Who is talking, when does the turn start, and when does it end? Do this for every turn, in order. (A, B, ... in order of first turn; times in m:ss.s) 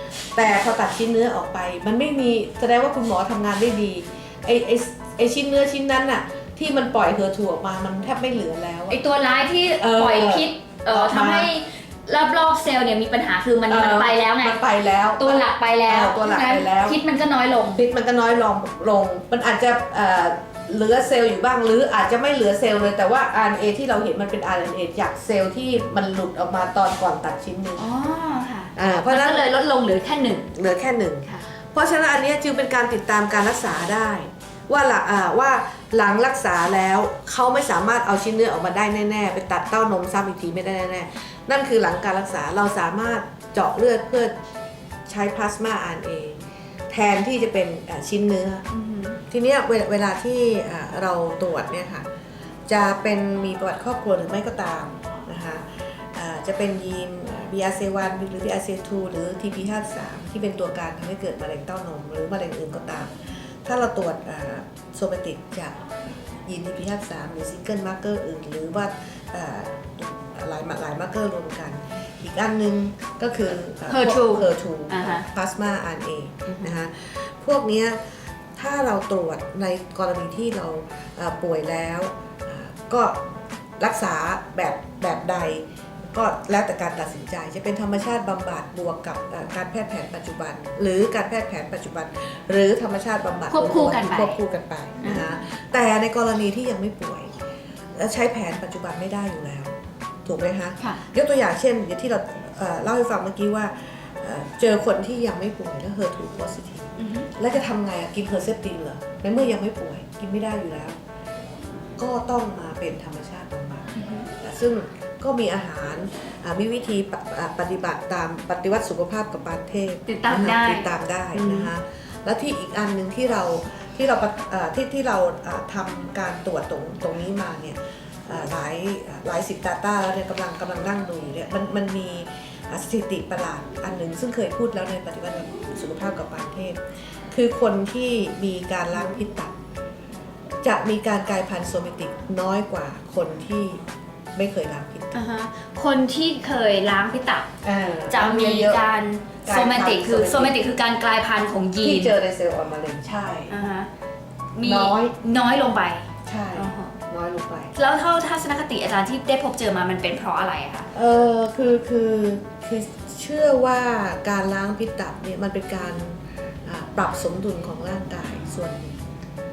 0:00.3-0:09.0 A
0:08.9-0:14.6 B
0:09.8-0:11.5 A
0:13.7-0:17.0 A
0:15.2-0:17.8 B
0:17.8-0:27.9 A
0:27.8-0:30.5 B
0:28.8-0:29.4 A
0:30.5-0:44.3 A
0:45.1-0:46.4 A
0:46.9-0:48.6 A
0:48.7-0:49.2 B
0:49.3-0:52.0 A
0:52.7-1:05.8 A
1:06.4-1:23.2 A
1:13.9-1:15.2 B
1:23.8-1:37.3 A
1:33.5-1:34.4 B
1:38.0-1:39.7 A
1:40.2-1:51.0 A
1:47.0-1:47.3 B
1:52.0-1:53.9 A
1:54.0-1:54.3 B
1:54.4-2:19.5 A
2:00.1-2:01.7 B
2:20.6-2:23.8 A
2:24.4-2:25.2 A
2:25.1-2:27.5 B
2:27.6-2:28.8 A
2:28.1-2:32.2 B
2:29.5-2:30.6 A
2:31.8-2:33.5 A
2:33.5-2:33.9 B
2:34.6-2:36.9 B
2:34.6-2:35.1 A
2:36.3-2:37.7 A
2:37.8-2:40.9 B
2:40.9-2:49.0 A